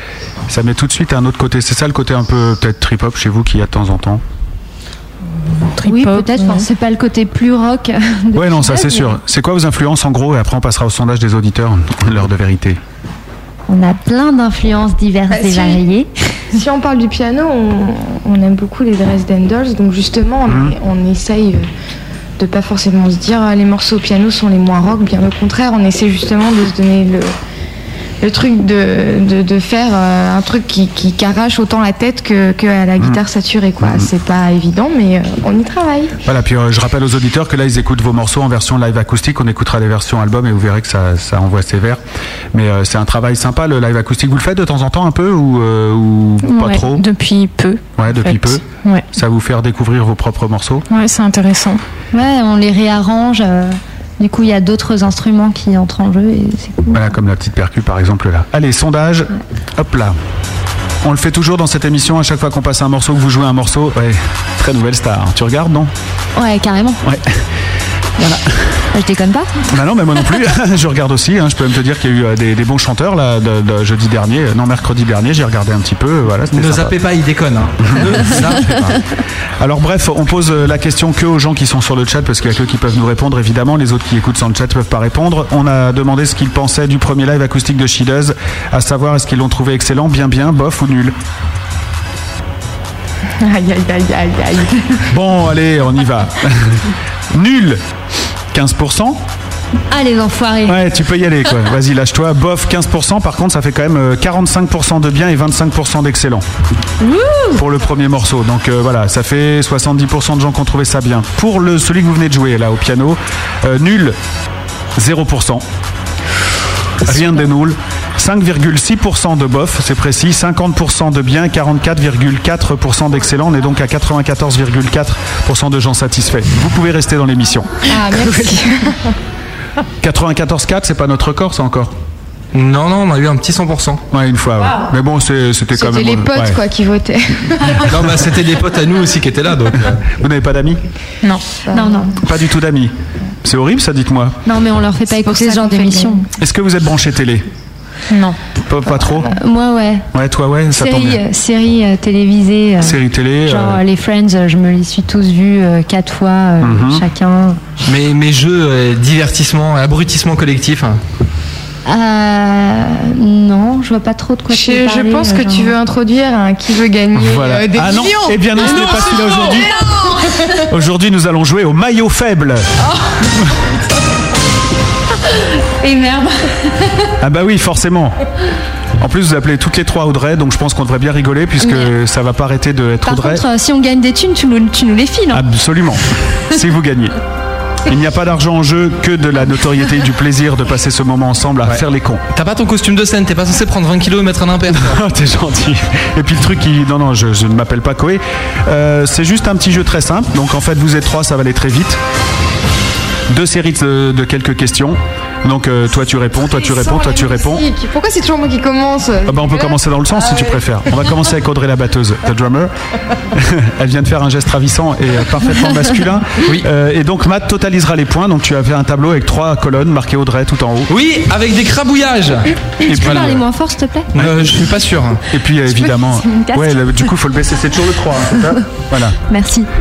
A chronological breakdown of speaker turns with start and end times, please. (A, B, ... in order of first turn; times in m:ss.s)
0:00.5-0:04.2 A
0:05.6-0:06.7 B
0:05.8-0:09.2 C
0:08.3-0:12.8 A
0:13.7-0:16.1 C
0:15.3-0:15.8 D
0:16.5-0:21.7 D
0:20.5-0:20.8 A
0:22.4-0:27.3 D
0:28.2-0:36.2 D
0:33.8-0:34.1 A
0:36.2-0:42.0 A
0:42.5-0:47.0 A
0:46.4-0:49.1 B
0:48.0-0:50.9 A
0:50.9-0:51.8 B
0:52.1-0:57.0 C
0:56.9-1:00.2 A
1:01.0-1:05.9 A
1:06.4-1:07.0 C
1:07.0-1:07.4 A
1:08.2-1:08.8 A
1:08.9-1:09.5 C
1:09.7-1:17.0 A
1:16.5-1:19.0 E
1:17.8-1:19.0 A
1:19.6-1:31.2 A
1:33.4-1:35.1 D
1:35.1-1:37.8 A
1:38.5-1:39.2 A
1:39.9-1:40.8 C
1:40.7-1:46.4 A
1:47.0-1:47.6 C
1:47.6-1:54.2 A
1:55.0-1:55.6 A
1:57.0-2:07.8 A
2:07.9-2:09.2 D
2:10.0-2:12.0 A
2:12.5-2:14.0 E
2:14.1-2:16.6 A
2:15.8-2:17.9 D
2:17.8-2:20.0 E
2:20.1-2:20.8 A
2:21.6-2:22.1 D
2:21.7-2:22.2 C
2:22.2-2:24.4 A
2:24.4-2:26.3 C
2:25.1-2:26.3 D
2:26.4-2:27.5 A
2:28.1-2:28.4 B
2:28.7-2:29.3 A
2:29.3-2:30.1 C
2:30.1-2:31.2 A
2:30.7-2:37.6 C
2:32.8-2:33.8 A
2:36.6-2:37.0 A
2:37.8-2:41.0 E
2:41.9-2:45.7 C
2:44.5-2:50.6 D
2:47.2-2:49.8 A
2:50.7-2:52.7 A
2:55.8-2:56.5 C
2:57.2-2:58.2 A
2:59.0-3:03.4 A
3:01.6-3:01.9 C
3:03.1-3:05.4 C
3:05.3-3:07.2 A
3:07.9-3:12.2 A
3:12.3-3:15.0 E
3:14.7-3:22.0 A
3:23.3-3:27.7 A
3:26.4-3:30.6 D
3:29.3-3:32.7 A
3:33.3-3:40.9 A
3:40.9-3:43.4 E
3:42.8-3:44.1 C
3:42.8-3:43.4 A
3:44.2-3:45.2 E
3:44.2-3:49.2 A
3:45.8-3:47.0 C
3:49.3-3:49.7 C